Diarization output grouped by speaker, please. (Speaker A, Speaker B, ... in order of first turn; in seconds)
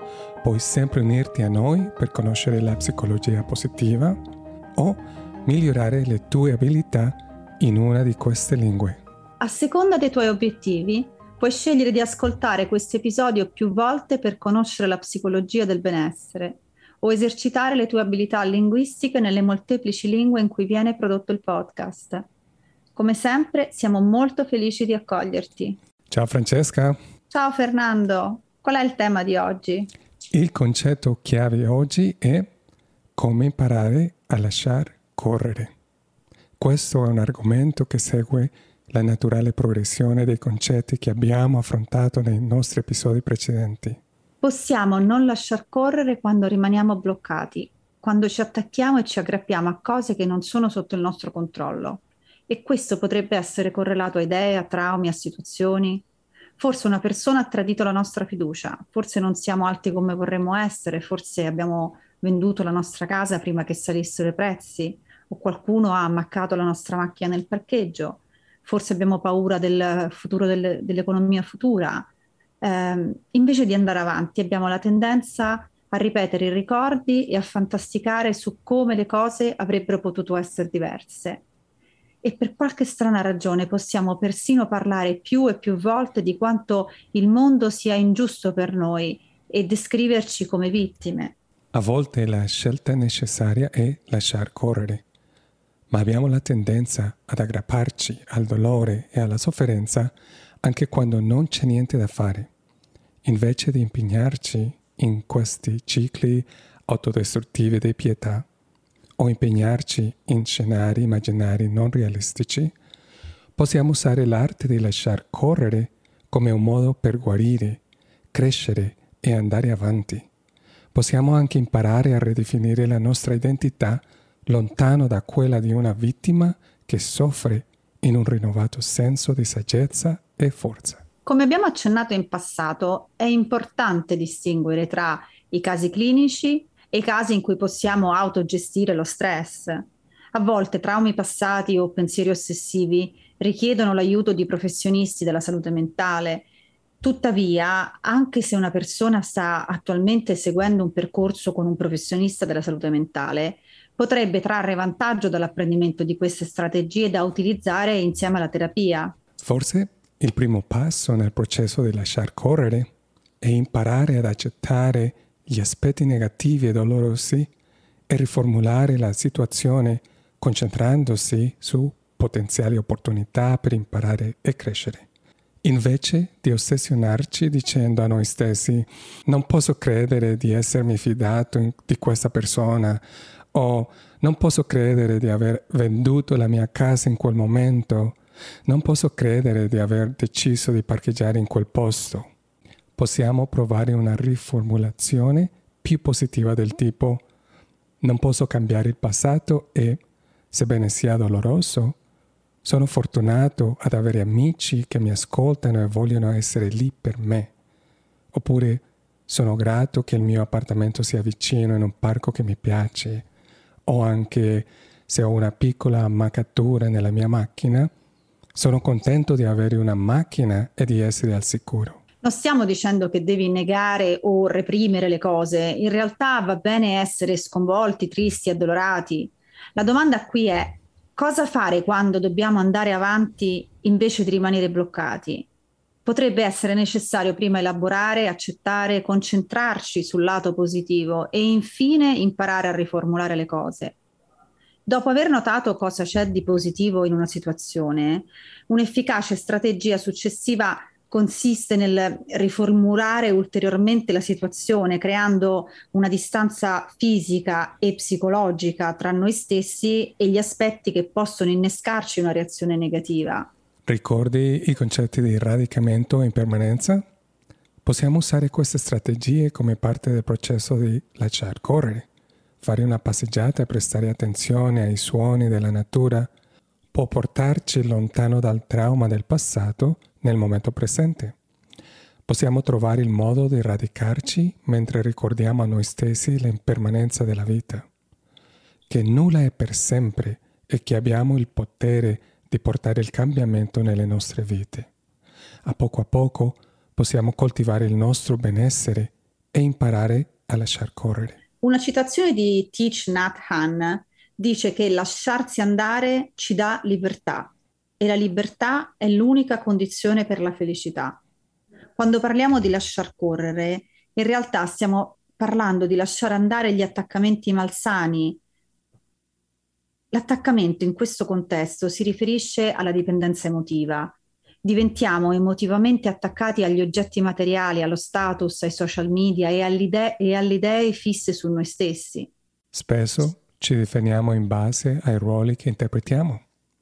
Speaker A: 0.4-4.2, 4.8-9.0, 26.1-27.0, 30.3-32.5, 33.2-35.7, 36.6-44.0, 91.7-95.0, 95.9-102.5, 103.2-108.5, 109.2-112.8, 113.6-117.8, 118.3-120.3, 120.9-131.0, 159.4-162.9, 163.4-167.5, 168.1-175.1, 175.6-183.0, 183.5-192.3, 193.0-197.2, 198.0-200.0, 200.5-202.0, 202.6-207.5, 208.3-213.3, 213.9-217.9, 218.6-222.0, 263.9-267.0, 267.9-272.1, 272.6-276.3, 276.9-281.4, 282.3-287.9, 288.9-294.9, 295.6-301.4, 332.7-336.4
Speaker B: 9.4-22.3, 22.9-25.8, 27.3-29.9, 44.4-56.0, 56.6-72.1, 72.6-81.5, 82.2-91.4, 131.3-146.5, 147.0-159.2, 222.2-235.5, 236.1-244.0, 244.9-263.5, 301.6-311.2, 312.0-318.4, 320.1-332.3